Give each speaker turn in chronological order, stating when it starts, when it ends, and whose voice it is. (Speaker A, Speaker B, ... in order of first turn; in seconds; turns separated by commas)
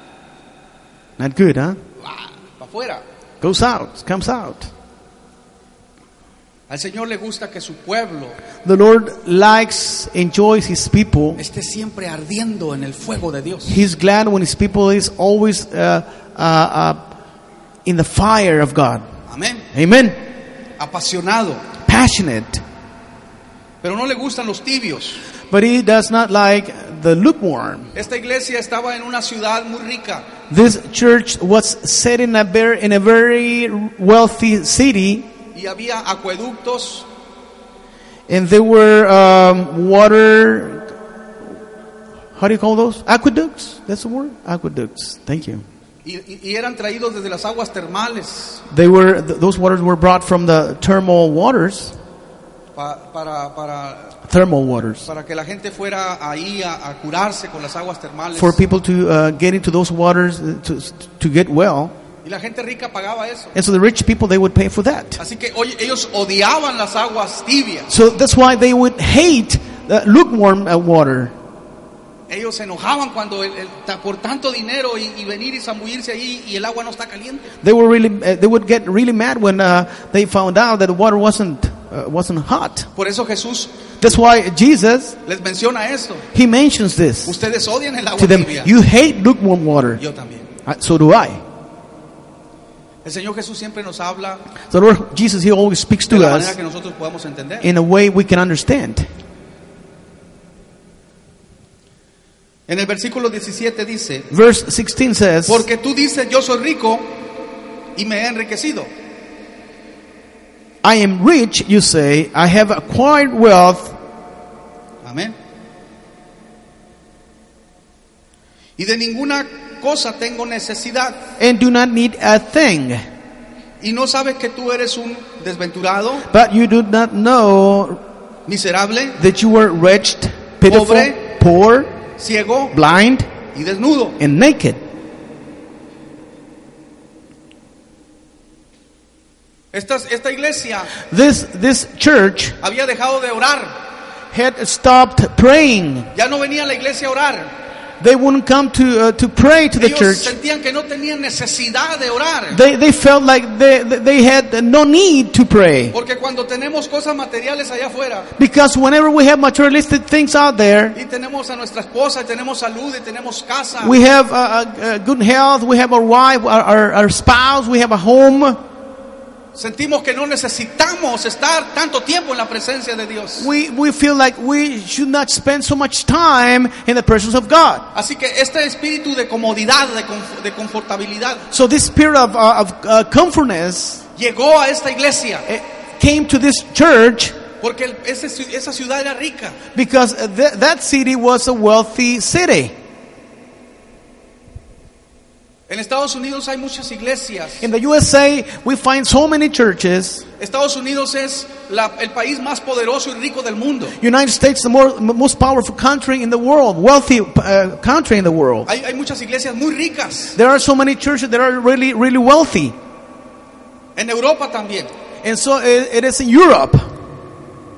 Speaker A: 1.2-1.8, Speaker B: 2.0-3.0, Speaker A: 3.4-4.7, Speaker B: 6.7-8.4, Speaker A: 8.6-11.4, Speaker B: 11.4-13.8, Speaker A: 13.7-17.1, Speaker A: 17.8-19.0, Speaker B: 19.3-19.6, Speaker A: 19.7-20.2, Speaker B: 20.8-21.6, Speaker A: 21.8-22.6, Speaker B: 23.8-25.2, Speaker A: 25.5-27.9, Speaker B: 27.9-30.2, Speaker A: 30.5-35.3, Speaker B: 35.5-37.1, Speaker A: 38.3-40.9, Speaker A: 42.4-45.6, Speaker B: 46.0-48.6, Speaker A: 48.7-52.0, Speaker B: 52.7-54.1, Speaker A: 54.2-55.1, Speaker B: 55.0-58.6, Speaker A: 58.4-61.9, Speaker B: 62.2-63.5, Speaker A: 63.5-65.2, Speaker B: 65.2-67.9, Speaker A: 67.9-71.3, Speaker B: 72.3-77.5, Speaker A: 77.6-82.9, Speaker B: 82.9-83.7, Speaker A: 84.0-85.2, Speaker B: 85.2-86.2, Speaker A: 86.3-87.4, Speaker B: 87.2-88.7, Speaker A: 88.2-90.0, Speaker B: 90.0-90.5, Speaker A: 90.6-91.4, Speaker B: 93.0-94.4, Speaker A: 94.7-96.6, Speaker B: 96.1-97.7, Speaker A: 97.6-99.1, Speaker B: 102.7-104.3, Speaker A: 104.3-105.7, Speaker B: 105.5-107.1, Speaker B: 108.0-108.9, Speaker A: 110.8-114.0, Speaker B: 115.0-115.3, Speaker B: 118.8-121.3, Speaker A: 121.4-123.0, Speaker B: 123.8-126.2, Speaker A: 126.3-128.0, Speaker B: 128.5-129.2, Speaker A: 129.2-131.9, Speaker B: 130.7-131.2, Speaker B: 132.2-132.7, Speaker A: 132.7-133.3, Speaker B: 133.5-134.2, Speaker A: 134.2-134.8, Speaker B: 139.7-140.9, Speaker A: 141.0-142.6, Speaker B: 142.6-143.7, Speaker A: 144.3-146.1, Speaker B: 146.1-147.5, Speaker A: 148.0-150.3, Speaker B: 149.8-152.6, Speaker A: 152.5-155.9, Speaker B: 155.9-158.3, Speaker A: 158.4-161.0, Speaker B: 160.9-164.0, Speaker A: 163.8-168.6, Speaker B: 169.5-173.5, Speaker A: 173.4-177.9, Speaker B: 177.9-181.4, Speaker A: 181.5-184.0, Speaker B: 184.2-185.4, Speaker A: 185.5-187.4, Speaker B: 187.6-189.6, Speaker A: 189.7-192.7, Speaker B: 195.7-197.7, Speaker A: 197.6-200.2, Speaker B: 200.4-204.0, Speaker A: 204.0-208.7, Speaker B: 208.7-210.3, Speaker A: 210.3-212.8, Speaker B: 213.9-214.9, Speaker A: 215.2-216.9